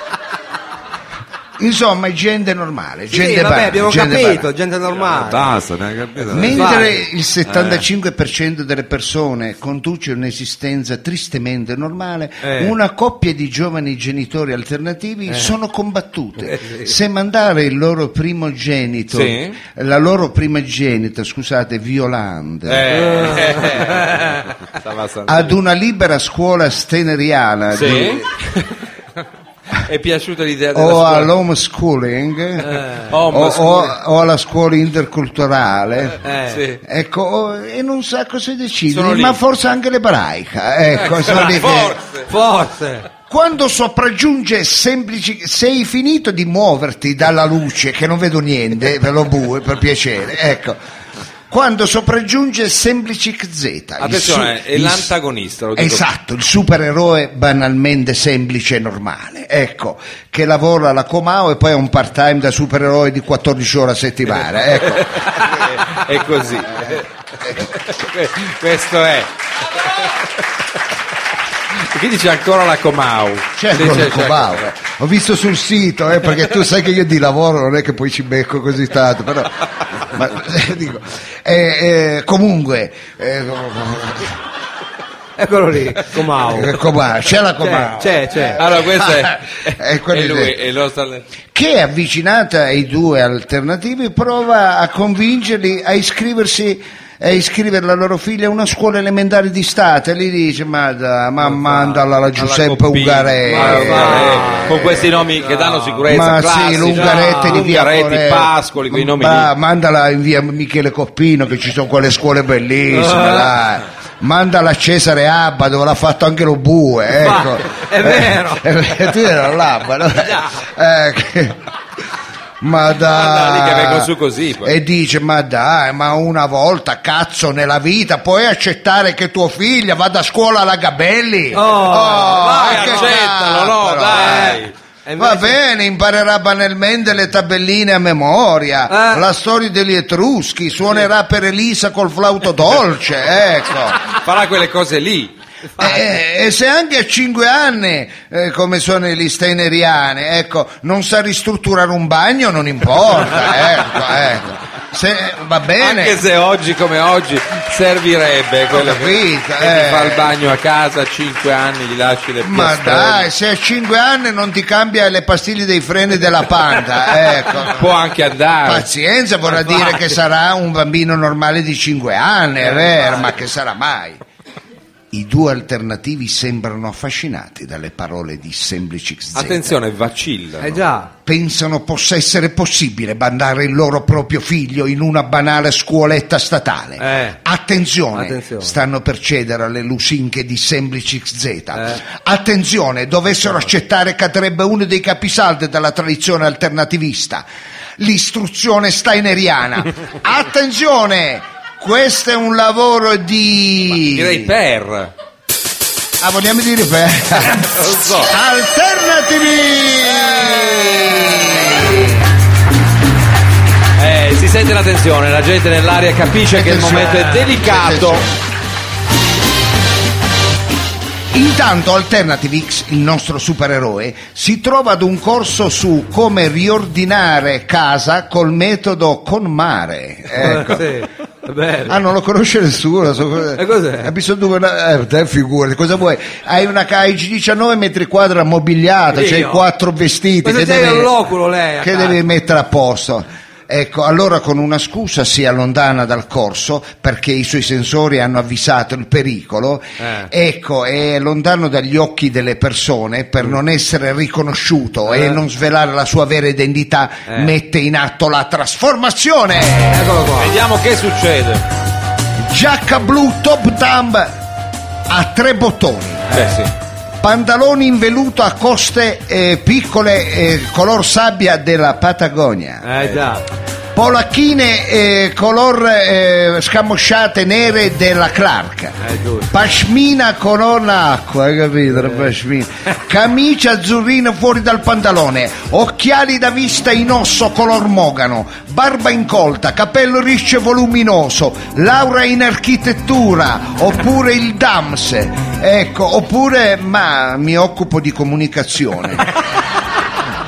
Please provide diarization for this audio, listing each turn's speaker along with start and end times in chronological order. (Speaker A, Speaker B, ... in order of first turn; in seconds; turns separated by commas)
Speaker A: 1.6-4.5, Speaker B: 3.1-5.5, Speaker C: 4.9-6.9, Speaker A: 6.3-22.9, Speaker B: 6.5-7.0, Speaker C: 7.5-7.8, Speaker B: 12.4-12.7, Speaker D: 19.1-19.6, Speaker D: 22.6-25.6, Speaker B: 22.9-24.5, Speaker A: 25.3-28.3, Speaker D: 27.7-28.7, Speaker D: 29.8-31.3, Speaker A: 30.7-36.2, Speaker B: 32.6-33.0, Speaker D: 32.7-34.0, Speaker B: 36.2-36.6, Speaker D: 36.5-36.8, Speaker A: 36.8-42.0, Speaker D: 38.9-39.4, Speaker D: 40.9-42.3, Speaker B: 42.3-43.1, Speaker A: 43.3-50.8, Speaker A: 51.5-55.1, Speaker D: 54.0-56.0, Speaker A: 55.8-65.2, Speaker D: 64.8-69.3, Speaker A: 66.8-67.7, Speaker D: 71.8-74.7, Speaker A: 73.6-84.4, Speaker B: 85.4-86.8, Speaker A: 86.5-90.5, Speaker B: 87.6-88.6, Speaker D: 88.6-91.3, Speaker A: 91.5-104.5, Speaker D: 101.5-109.5, Speaker B: 103.5-106.0, Speaker A: 106.1-121.6, Speaker B: 106.9-107.6, Speaker B: 112.9-113.5, Speaker B: 117.2-118.7, Speaker B: 120.2-120.5, Speaker A: 122.6-124.1, Speaker D: 122.9-124.7, Speaker A: 124.6-134.6, Speaker B: 131.5-133.1, Speaker D: 132.4-134.7, Speaker B: 134.1-135.5, Speaker A: 135.2-144.0, Speaker B: 138.9-139.2, Speaker D: 144.0-145.3, Speaker A: 145.8-156.2, Speaker D: 155.8-163.3, Speaker A: 158.7-160.3, Speaker A: 162.4-167.9, Speaker D: 167.4-168.9, Speaker A: 168.6-174.2, Speaker B: 172.6-173.3, Speaker A: 175.1-179.8, Speaker D: 179.3-180.8, Speaker B: 180.6-181.1, Speaker A: 181.2-197.4, Speaker B: 187.0-187.4, Speaker B: 188.1-188.7, Speaker A: 198.0-204.5, Speaker D: 204.0-205.1, Speaker A: 206.2-212.2, Speaker D: 207.4-208.3, Speaker D: 210.0-211.9, Speaker D: 214.0-218.2, Speaker A: 216.5-218.4, Speaker A: 221.3-230.9, Speaker B: 230.4-232.0, Speaker A: 231.9-241.1, Speaker B: 233.6-234.1, Speaker B: 239.1-239.6, Speaker B: 240.4-242.2, Speaker A: 241.8-260.1, Speaker B: 250.0-250.3, Speaker B: 255.1-255.4, Speaker B: 257.3-257.5, Speaker B: 259.9-260.5, Speaker D: 260.4-261.6, Speaker A: 262.4-264.4, Speaker A: 265.1-266.2, Speaker B: 266.3-266.5, Speaker D: 266.3-266.7, Speaker A: 267.2-272.9, Speaker B: 272.8-273.4, Speaker A: 273.9-279.0, Speaker B: 279.0-279.5, Speaker A: 279.5-299.3, Speaker B: 281.9-282.3